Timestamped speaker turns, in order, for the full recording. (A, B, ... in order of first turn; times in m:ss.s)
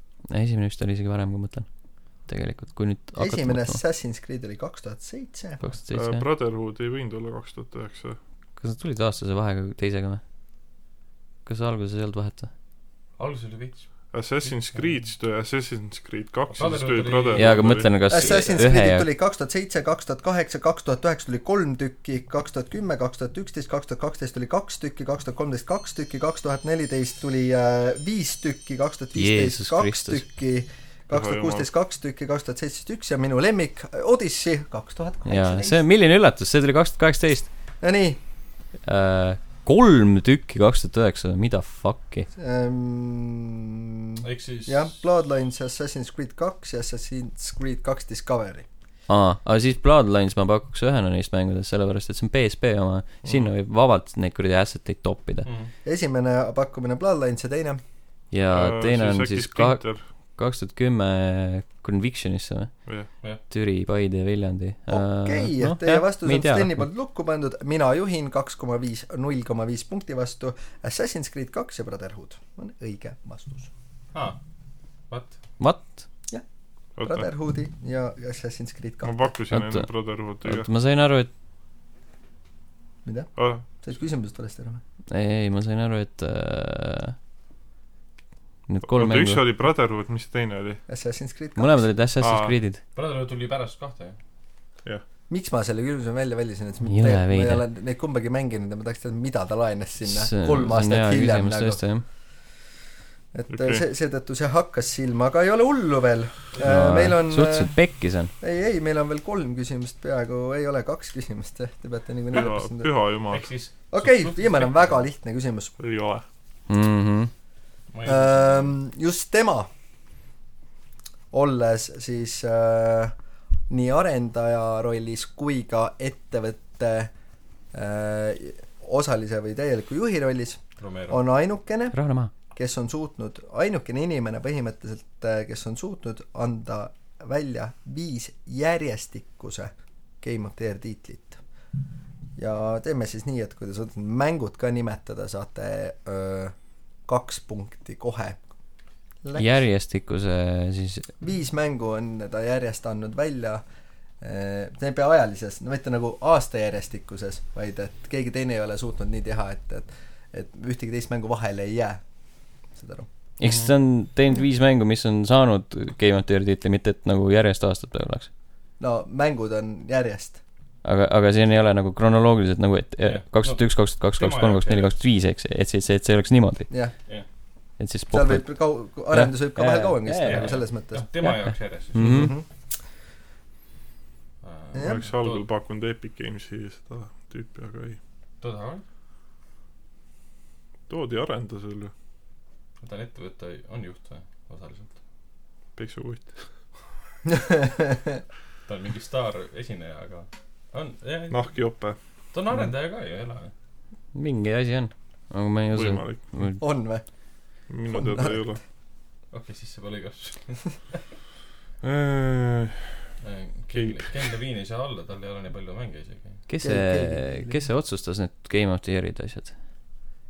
0:00.3-0:03.8 A
0:03.2-0:05.6 B
0:05.6-0:06.3 A
0:05.9-0:08.2 C
0:08.6-0:10.2 A
0:11.4-0:12.5 A
0:13.2-0:15.0 D
0:14.1-0:17.9 C
0:16.5-0:17.9 D
0:17.3-0:19.1 A
0:18.1-0:35.8 B
0:29.2-0:30.2 A
0:31.1-0:31.7 C
0:35.2-0:37.5 A
0:37.8-0:38.2 B
0:38.8-0:42.3 A
0:42.4-0:48.6 B
0:44.2-0:44.9 D
0:49.1-0:55.5 A
0:53.2-0:53.5 C
0:55.4-0:55.7 D
0:55.8-0:57.8 B
0:58.3-1:06.9 A
0:58.5-1:00.0 C
1:04.9-1:13.7 B
1:14.1-1:14.4 D
1:15.1-1:15.4 D
1:15.6-1:16.0 A
1:17.0-1:17.3 C
1:17.0-1:19.1 B
1:19.0-1:20.7 C
1:19.5-1:21.3 A
1:23.0-1:24.8 B
1:23.4-1:23.6 C
1:25.1-1:27.2 A
1:28.7-1:29.4 A
1:28.8-1:30.8 C
1:30.9-1:31.9 B
1:31.6-1:32.8 A
1:32.2-1:32.6 C
1:32.9-1:34.2 D
1:35.3-1:41.8 B
1:36.9-1:37.6 A
1:40.0-1:42.0 A
1:43.3-1:47.8 B
1:43.5-1:43.8 C
1:46.6-1:48.3 A
1:48.4-1:52.9 B
1:52.3-1:53.5 C
1:53.3-1:55.0 D
1:53.9-1:55.8 B
1:55.8-1:56.2 C
1:56.7-1:57.3 A
1:57.9-1:58.7 D
1:58.0-1:59.7 B
2:01.3-2:03.1 B
2:03.7-2:07.1 B
2:07.7-2:12.0 B
2:10.8-2:11.2 D
2:11.9-2:12.3 A
2:12.5-2:21.4 B
2:22.4-2:26.5 B
2:27.0-2:28.4 B
2:29.2-2:29.5 B
2:29.4-2:31.1 A
2:31.2-2:33.6 B
2:34.2-2:42.0 B
2:42.7-2:43.1 B
2:43.4-2:48.3 A
2:43.4-2:43.7 D
2:48.8-2:50.4 B
2:50.8-2:56.7 A
2:53.0-2:54.9 D
2:57.8-2:58.6 A
2:58.1-3:01.0 B
2:59.1-3:00.5 A
3:00.2-3:02.2 D
3:01.2-3:02.3 A
3:02.0-3:02.4 B
3:04.4-3:05.5 D
3:04.7-3:05.0 B
3:04.8-3:08.0 C
3:08.4-3:08.8 D
3:10.9-3:11.9 C
3:12.8-3:15.0 D
3:15.8-3:16.5 C
3:17.3-3:18.2 B
3:18.6-3:23.5 D
3:21.3-3:22.0 C
3:24.1-3:26.6 A
3:25.7-3:26.2 C
3:26.6-3:27.0 B
3:27.7-3:28.6 C
3:27.9-3:28.6 B
3:29.3-3:31.0 D
3:31.8-3:33.0 C
3:33.2-3:36.4 D
3:33.7-3:34.2 C
3:36.5-3:40.0 A
3:36.6-3:37.6 B